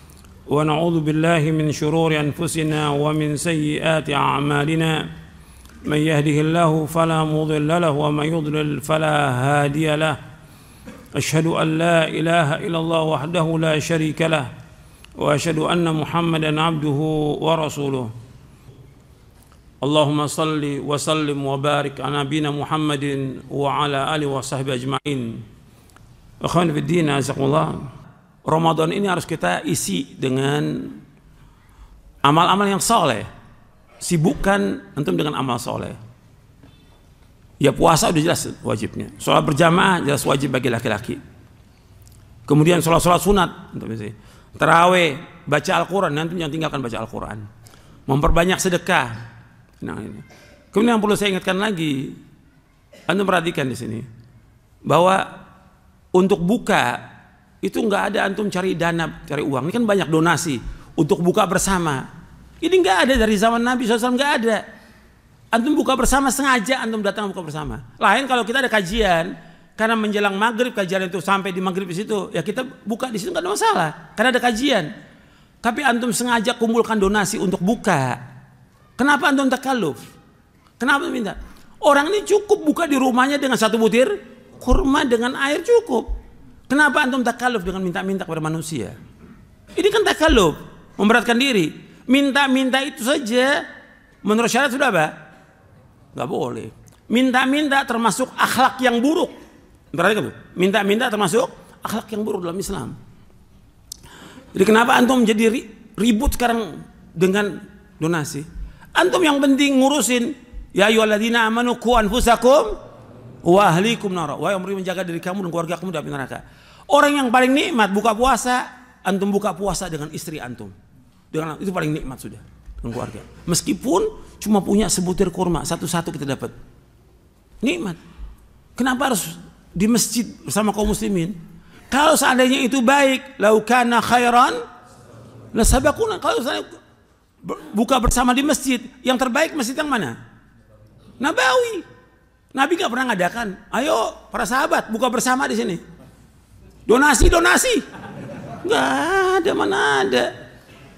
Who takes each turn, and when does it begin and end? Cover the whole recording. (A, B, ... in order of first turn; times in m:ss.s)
0:00.5-0:05.1 A
0:05.8-0:10.2 A
0:11.1-0:14.5 A
0:15.2-0:18.1 A
0:19.8-0:25.4 A
0:26.4-0:27.9 A
0:28.4-0:31.0 A
0:32.2-0:33.3 A
0:34.0-0:36.0 A
0:37.6-0:41.2 A
0:42.5-0:47.5 A
0:48.1-0:49.2 A
0:49.8-0:52.2 A
0:53.1-0:54.1 A
0:54.9-0:55.3 A
0:56.1-0:57.0 A
0:57.6-1:02.1 A
1:02.6-1:04.6 A
1:05.5-1:14.9 A
1:15.6-1:18.2 A
1:19.0-1:20.0 A
1:20.8-1:26.1 A
1:26.7-1:29.0 A
1:29.8-1:33.6 A
1:34.2-1:35.1 A
1:36.1-1:39.3 A
1:39.9-1:43.0 A
1:44.6-1:52.8 A
1:53.4-2:00.7 A
2:01.3-2:06.5 A
2:07.6-2:08.0 A
2:08.8-2:11.4 A
2:11.9-2:14.6 A
2:15.5-2:16.7 A
2:17.4-2:20.2 A
2:21.2-2:21.8 A
2:22.5-2:25.8 A
2:26.9-2:27.8 A
2:28.6-2:30.3 A